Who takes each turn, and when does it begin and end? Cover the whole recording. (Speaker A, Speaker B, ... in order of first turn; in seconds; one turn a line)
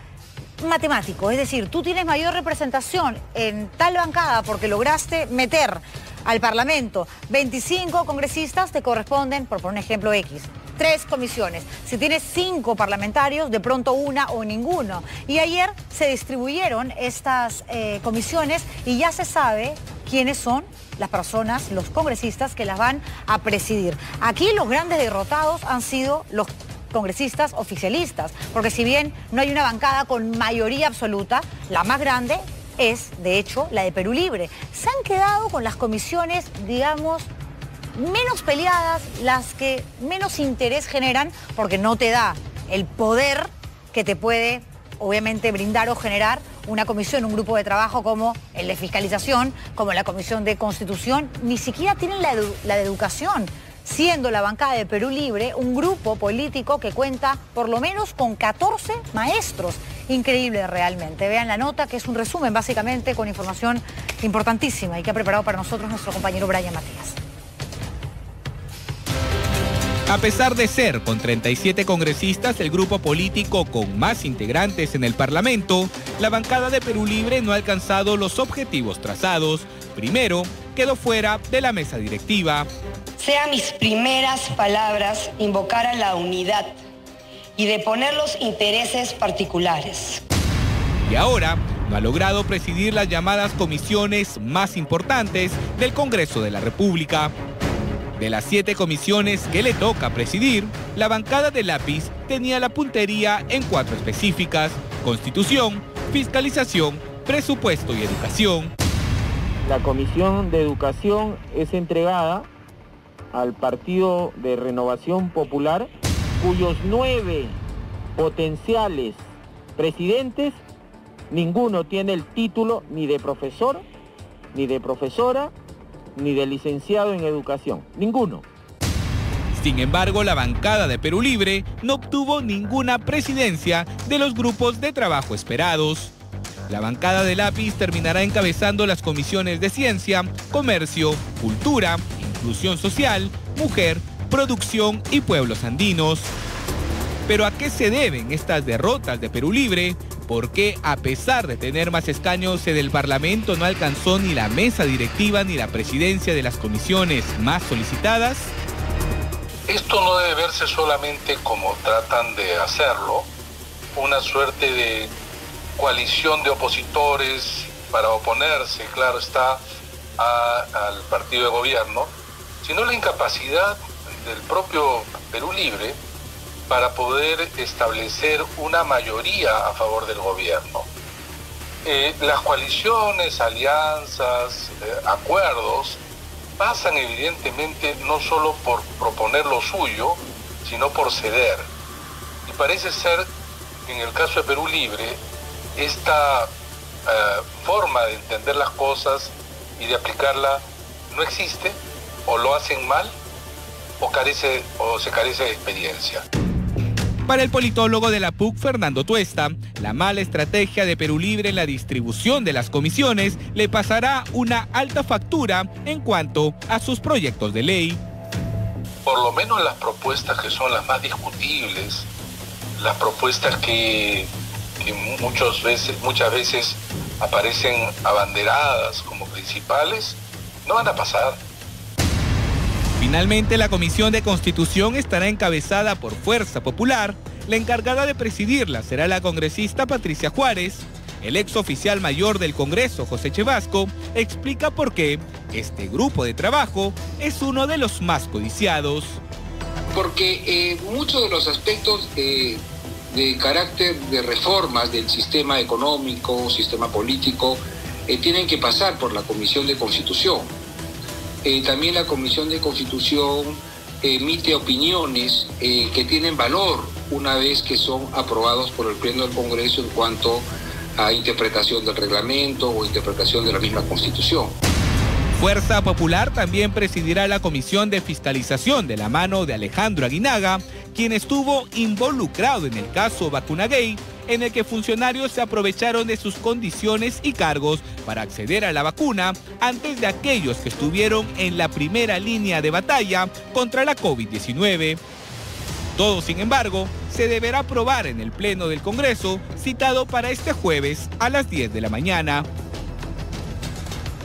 Speaker A: 0.6-37.3
Speaker A: 37.9-67.2
Speaker B: 70.1-82.7
Speaker C: 83.2-86.4
Speaker C: 87.6-90.1
Speaker B: 91.1-97.3
Speaker B: 98.2-108.7
Speaker D: 109.6-112.5
Speaker D: 113.3-117.6
Speaker D: 118.2-119.2
Speaker D: 119.8-120.6
Speaker D: 121.3-123.9
Speaker D: 124.5-125.5
Speaker D: 126.2-128.4
Speaker B: 129.5-136.2
Speaker B: 136.7-146.3
Speaker B: 147.3-158.5
Speaker E: 159.7-163.3
Speaker E: 164.0-165.1
Speaker E: 165.8-169.6
Speaker E: 170.2-176.0
Speaker E: 176.7-180.9
Speaker E: 181.8-186.0
Speaker E: 186.6-191.7
Speaker E: 192.5-193.3
Speaker E: 193.9-195.2
Speaker E: 195.8-196.5
Speaker E: 197.1-203.2
Speaker E: 204.0-206.2
Speaker B: 207.3-218.0
Speaker E: 219.1-222.1
Speaker E: 222.8-231.4
Speaker B: 233.0-249.2
Speaker F: 249.9-260.5
Speaker F: 261.4-274.6
Speaker B: 275.4-295.0
Speaker B: 296.0-302.5